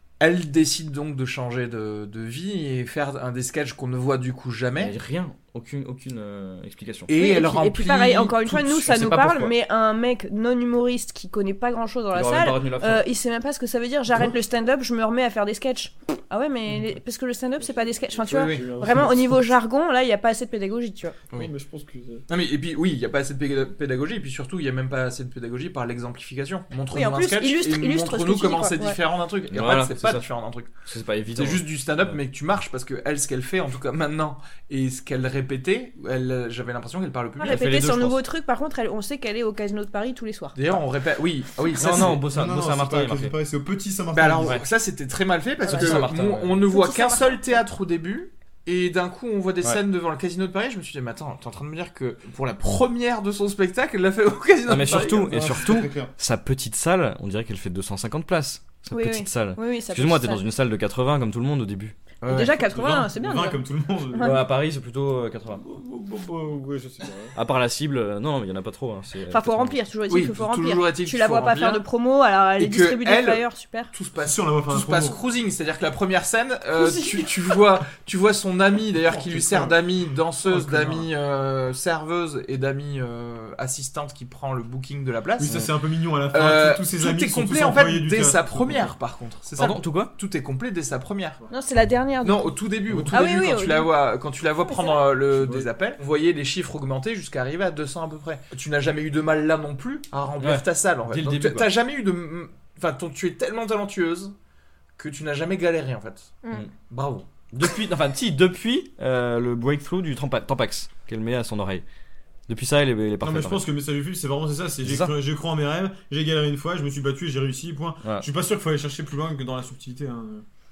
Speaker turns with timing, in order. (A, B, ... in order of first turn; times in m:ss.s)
0:00.2-0:05.0 A
0:04.8-0:07.1 B
0:07.1-0:09.4 A
0:07.2-0:21.2 C
0:12.1-0:13.0 B
0:17.6-0:19.4 D
0:18.3-0:19.0 A
0:21.3-0:22.3 D
0:22.3-0:30.7 A
0:26.9-0:29.0 C
0:29.5-0:30.2 B
0:30.8-0:32.2 B
0:31.3-0:37.6 A
0:37.4-0:40.6 C
0:37.4-0:38.2 B
0:40.6-0:42.2 A
0:41.8-0:43.3 B
0:41.8-0:44.6 D
0:44.1-0:55.6 A
0:45.6-0:46.6 B
0:45.7-0:46.1 C
0:46.7-0:47.6 C
0:54.7-1:02.0 B
0:54.9-0:56.1 D
0:58.9-1:00.4 C
1:02.2-1:02.5 A
1:02.3-1:03.6 C
1:02.3-1:04.4 D
1:04.1-1:04.4 C
1:04.2-1:05.6 B
1:05.5-1:07.4 D
1:07.4-1:09.8 B
1:09.3-1:13.9 C
1:10.1-1:11.8 A
1:12.6-1:25.6 A
1:14.2-1:15.2 D
1:16.8-1:17.3 C
1:19.0-1:19.8 D
1:20.5-1:21.1 D
1:25.4-1:28.9 D
1:26.3-1:31.4 A
1:29.6-1:30.1 B
1:31.5-1:32.5 C
1:32.2-1:44.3 A
1:32.9-1:33.2 D
1:33.1-1:33.9 C
1:34.6-1:35.1 C
1:35.3-1:35.7 D
1:40.4-1:41.7 B
1:45.0-1:46.3 A
1:46.9-1:47.3 A
1:47.5-1:51.8 B
1:52.5-1:53.6 B
1:53.2-2:00.4 D
1:54.8-1:55.1 B